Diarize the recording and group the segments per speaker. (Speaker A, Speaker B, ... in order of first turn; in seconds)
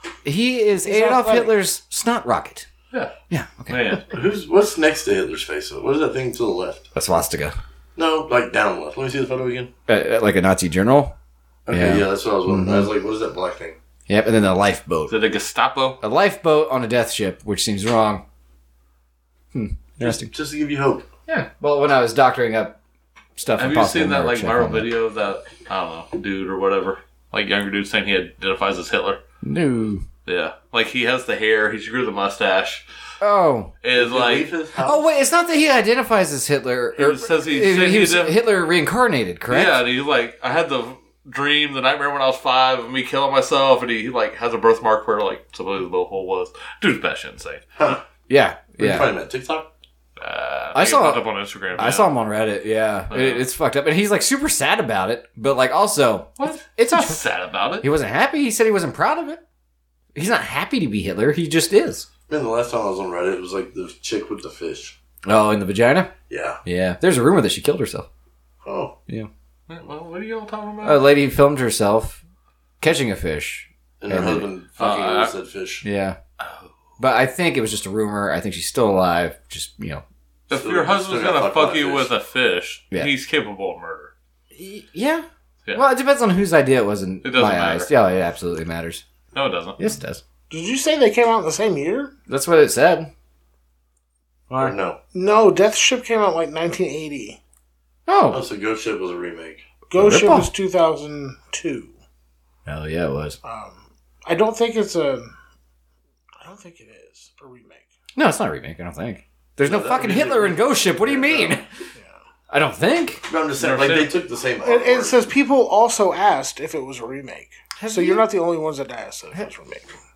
Speaker A: 0.2-2.7, 3.3-4.0, 6.9-7.5, 9.9-11.1, 11.7-12.9, 14.1-15.2, 16.0-18.2, 19.5-20.3, 21.3-22.8, 23.4-24.9, 29.4-30.0, 33.2-33.7, 34.8-39.8, 48.3-49.1, 50.7-51.2, 51.7-57.2, 57.8-59.4, 60.1-62.1, 65.2-66.1, 66.6-68.1, 70.8-72.2, 72.8-74.5, 75.8-76.2, 77.0-80.0, 84.5-89.0, 89.8-90.2, 92.3-93.1, 98.1-98.4, 100.0-100.5, 102.7-103.4, 108.2-111.9, 112.5-113.2, 117.8-118.2
Speaker B: 0.8-1.5, 90.5-92.1, 95.1-97.4, 99.9-101.9, 103.4-105.3, 106.4-107.9, 114.6-119.9
Speaker C: 3.7-4.0, 15.1-16.0, 23.6-29.2, 30.2-32.8, 33.8-34.5, 37.0-38.4, 39.5-47.6, 50.2-52.1, 53.1-53.4, 56.4-57.9, 69.7-71.0, 74.8-75.3, 76.4-76.7, 80.5-84.1, 87.2-87.9, 89.3-89.8, 113.6-114.1
Speaker D: 4.1-6.8, 8.0-9.7, 11.7-13.8, 20.0-21.1, 33.9-35.1, 47.8-48.0, 48.8-49.7, 62.3-64.9, 66.3-66.6, 68.6-68.9, 74.0-75.8, 80.5-82.1, 94.6-95.0, 98.3-99.6, 109.6-111.6, 113.2-115.3